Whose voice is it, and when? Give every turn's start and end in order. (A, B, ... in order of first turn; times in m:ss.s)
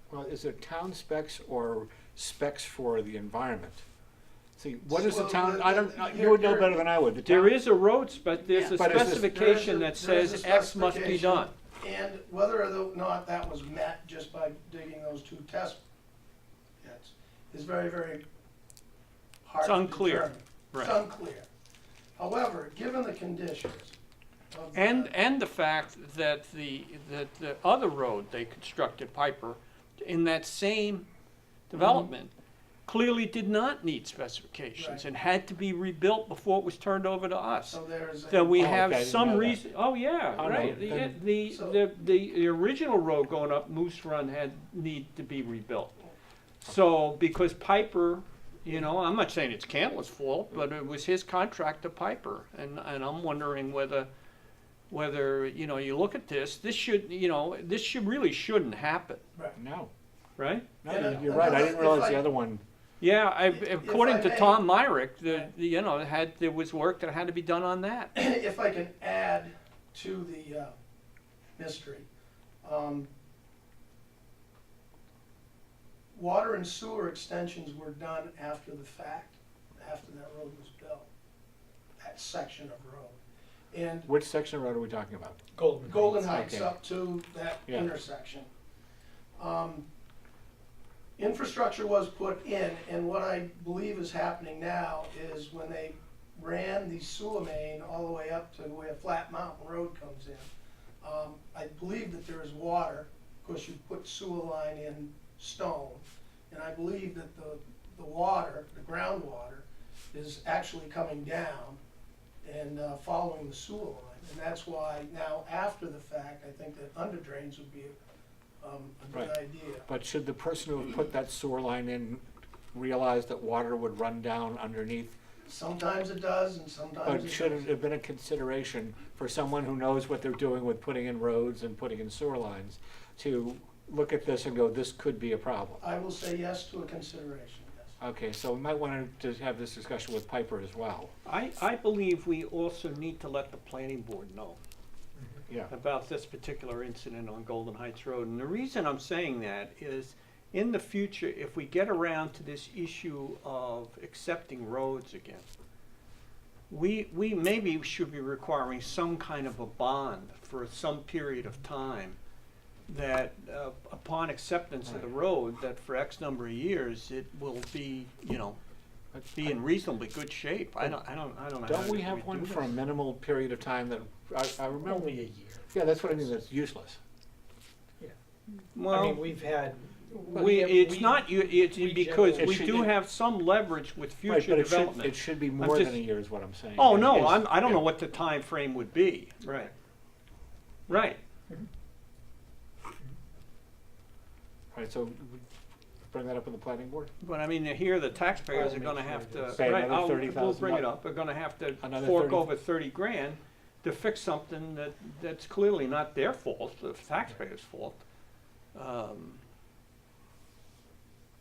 0:00.1-0:03.8 A
0:04.6-0:07.6 A
0:04.9-0:06.8 B
0:07.2-0:11.5 C
0:08.5-0:15.8 B
0:08.8-0:09.4 A
0:16.8-0:18.2 B
0:19.4-0:21.5 B
0:19.6-0:21.0 C
0:22.2-0:24.0 B
0:24.5-0:25.1 B
0:24.7-0:31.1 C
0:31.7-0:32.3 C
0:31.8-0:32.0 B
0:32.9-0:37.8 C
0:34.8-0:35.0 B
0:37.7-0:38.6 B
0:38.3-0:46.0 C
0:38.6-0:39.6 A
0:40.4-0:41.2 A
0:41.5-0:41.8 B
0:46.6-0:54.1 C
0:54.9-0:59.2 C
0:59.6-0:59.9 A
1:00.4-1:00.7 C
1:00.8-1:02.6 A
1:00.9-1:02.2 B
1:03.0-1:08.1 C
1:03.5-1:04.6 B
1:08.2-1:10.7 B
1:11.6-1:12.1 B
1:12.6-1:13.1 B
1:16.1-1:21.1 B
1:22.0-1:23.2 B
1:23.7-1:24.1 B
1:24.1-1:25.4 A
1:25.6-1:26.2 D
1:25.9-1:28.5 B
1:26.1-1:26.8 A
1:29.4-1:29.8 B
1:31.2-1:40.5 B
1:41.0-1:51.8 B
1:52.4-1:58.0 B
1:58.6-1:59.9 B
1:59.9-2:05.2 A
2:05.5-2:07.7 B
2:07.0-2:15.8 A
2:15.8-2:17.9 B
2:18.0-2:21.1 A
2:21.2-2:24.6 C
2:25.7-2:35.4 C
2:36.7-2:42.2 C
2:42.9-2:48.6 C
2:49.1-2:49.6 A
2:49.3-2:52.8 C
2:51.6-2:57.0 A
2:54.9-2:55.6 D
2:58.7-2:59.2 C
2:58.9-3:02.8 D
3:00.3-3:06.0 C
3:02.4-3:02.9 A
3:04.3-3:07.8 A
3:06.8-3:09.7 C
3:10.9-3:11.2 C
3:14.7-3:15.5 A
3:16.0-3:17.1 A
3:17.2-3:28.0 C
3:18.5-3:19.6 D
3:19.5-3:20.9 A
3:21.8-3:22.5 A
3:28.8-3:29.4 C